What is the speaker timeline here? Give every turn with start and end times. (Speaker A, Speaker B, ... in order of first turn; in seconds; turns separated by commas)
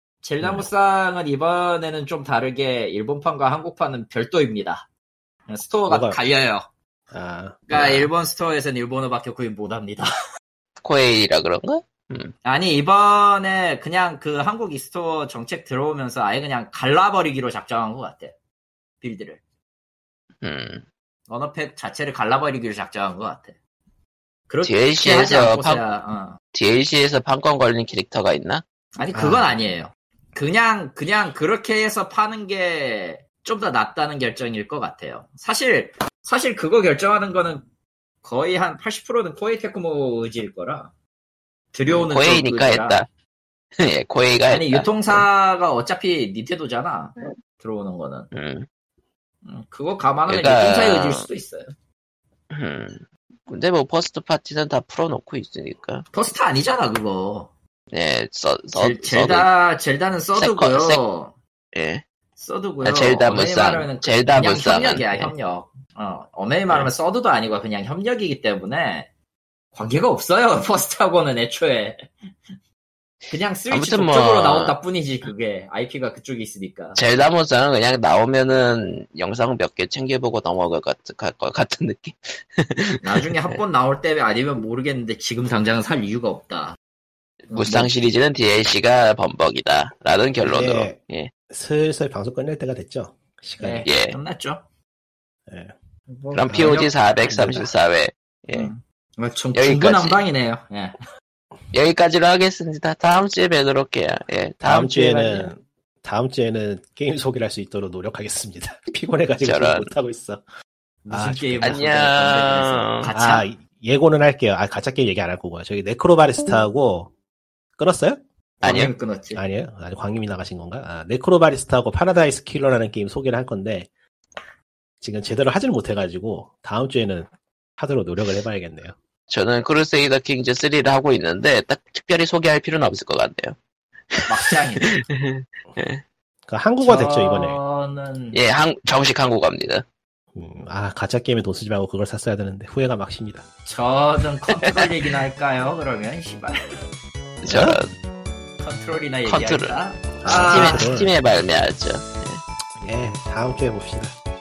Speaker A: 0.2-4.9, Speaker B: 0.4-0.7, Speaker A: 5.5-6.7, Speaker B: 5.9-6.2, Speaker B: 7.1-8.0, Speaker A: 7.7-10.1, Speaker C: 10.8-12.3, Speaker A: 12.4-18.3, Speaker A: 19.0-19.4, Speaker C: 20.4-20.9, Speaker A: 21.3-23.6, Speaker A: 24.5-26.4, Speaker C: 24.6-25.8, Speaker C: 26.5-28.6, Speaker A: 29.0-37.7, Speaker B: 29.1-29.5, Speaker A: 38.2-40.9, Speaker A: 41.7-43.0, Speaker C: 41.9-43.1, Speaker C: 43.8-45.2, Speaker A: 44.5-48.3, Speaker C: 48.3-48.7, Speaker A: 49.4-51.7, Speaker C: 50.3-51.3, Speaker C: 52.5-56.1, Speaker A: 56.1-57.5, Speaker C: 57.9-59.5, Speaker A: 58.7-61.4, Speaker C: 60.4-61.0, Speaker C: 61.7-62.0, Speaker A: 62.4-69.1, Speaker C: 62.8-65.3, Speaker A: 69.7-72.1, Speaker A: 73.3-77.0, Speaker C: 73.7-74.8, Speaker C: 77.0-83.0, Speaker A: 83.0-86.8, Speaker A: 87.5-87.9, Speaker C: 87.5-91.3, Speaker B: 90.4-91.0, Speaker B: 91.5-93.9, Speaker A: 93.6-94.6, Speaker C: 93.9-94.2, Speaker B: 95.5-95.7, Speaker A: 96.1-97.7, Speaker C: 96.3-98.7, Speaker B: 97.3-97.7, Speaker A: 98.5-101.0, Speaker C: 99.6-100.2, Speaker C: 101.7-105.5, Speaker B: 104.6-110.4, Speaker C: 109.4-109.9, Speaker A: 111.0-113.5, Speaker B: 111.1-111.8, Speaker C: 111.6-113.1, Speaker B: 113.1-117.1, Speaker B: 117.8-118.8, Speaker A: 118.6-119.4, Speaker C: 118.6-118.9, Speaker B: 119.3-123.9, Speaker B: 125.0-129.0, Speaker C: 129.3-133.6, Speaker C: 134.1-136.0, Speaker A: 134.3-134.9, Speaker B: 136.5-137.6, Speaker A: 136.8-138.4, Speaker C: 138.3-139.8, Speaker B: 140.3-143.5, Speaker A: 143.7-146.6, Speaker C: 147.4-147.9, Speaker B: 147.5-147.8, Speaker A: 148.6-150.9, Speaker C: 149.3-149.8, Speaker B: 150.2-151.1, Speaker C: 150.3-152.4, Speaker B: 152.8-154.1